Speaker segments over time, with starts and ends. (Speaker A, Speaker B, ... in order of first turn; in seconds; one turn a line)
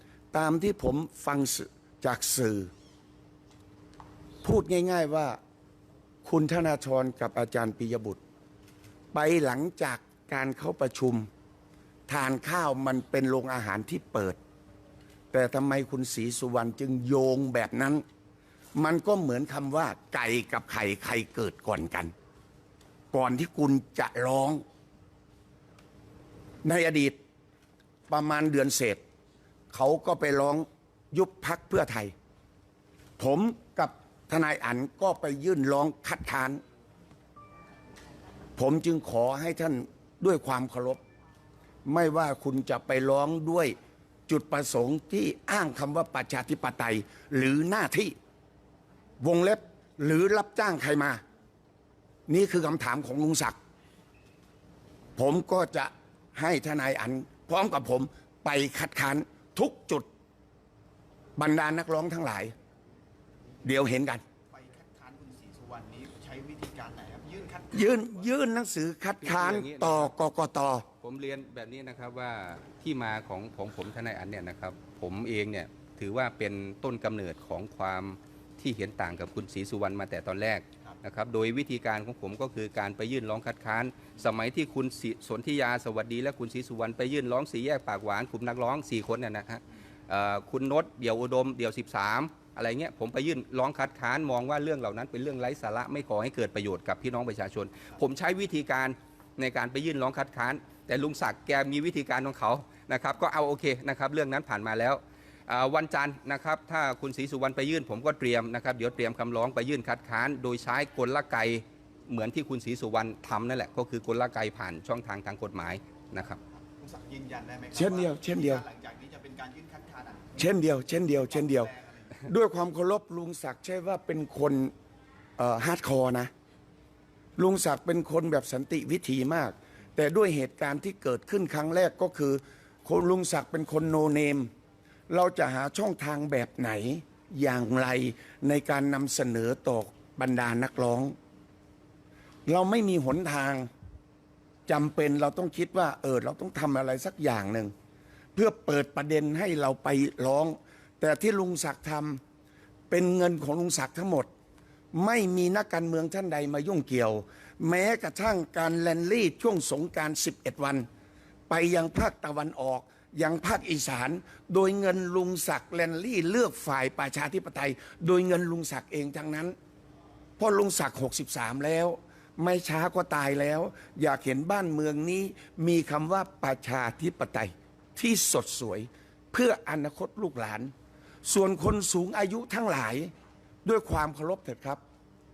Speaker A: 0.3-2.7
Speaker A: 4.4-5.4
Speaker A: 6.2-8.2
Speaker A: 9.1-11.3
Speaker A: 12.1-14.4
Speaker A: 15.3-18.0
Speaker A: 18.8-22.1
Speaker A: 23.1-24.6
Speaker A: 26.6-27.1
Speaker A: 28.1-29.0
Speaker A: 29.7-32.1
Speaker A: 33.2-36.6
Speaker A: 38.6-41.0
Speaker A: 41.9-43.8
Speaker A: 44.3-48.1
Speaker A: 49.2-51.2
Speaker A: 52.3-53.5
Speaker A: 55.2-60.1
Speaker A: 61.4-62.5
Speaker A: 63.6-64.2
Speaker B: 64.5-68.2
Speaker A: 67.7-70.8
Speaker C: 69.2-70.1
Speaker C: 71.0-116.4
Speaker B: 116.5-120.6
Speaker A: 117.7-118.6
Speaker A: 120.4-121.7
Speaker B: 121.2-122.2
Speaker A: 122.2-124.7
Speaker A: 125.4-126.3
Speaker A: 127.4-134.5
Speaker A: 135.1-141.1
Speaker A: 142.5-143.7
Speaker A: 144.7-147.7
Speaker A: 148.3-152.2
Speaker A: 152.9-154.3
Speaker A: 154.9-160.9
Speaker A: 161.5-169.5
Speaker A: 170.4-180.7
Speaker A: 181.2-183.1
Speaker A: 183.6-184.8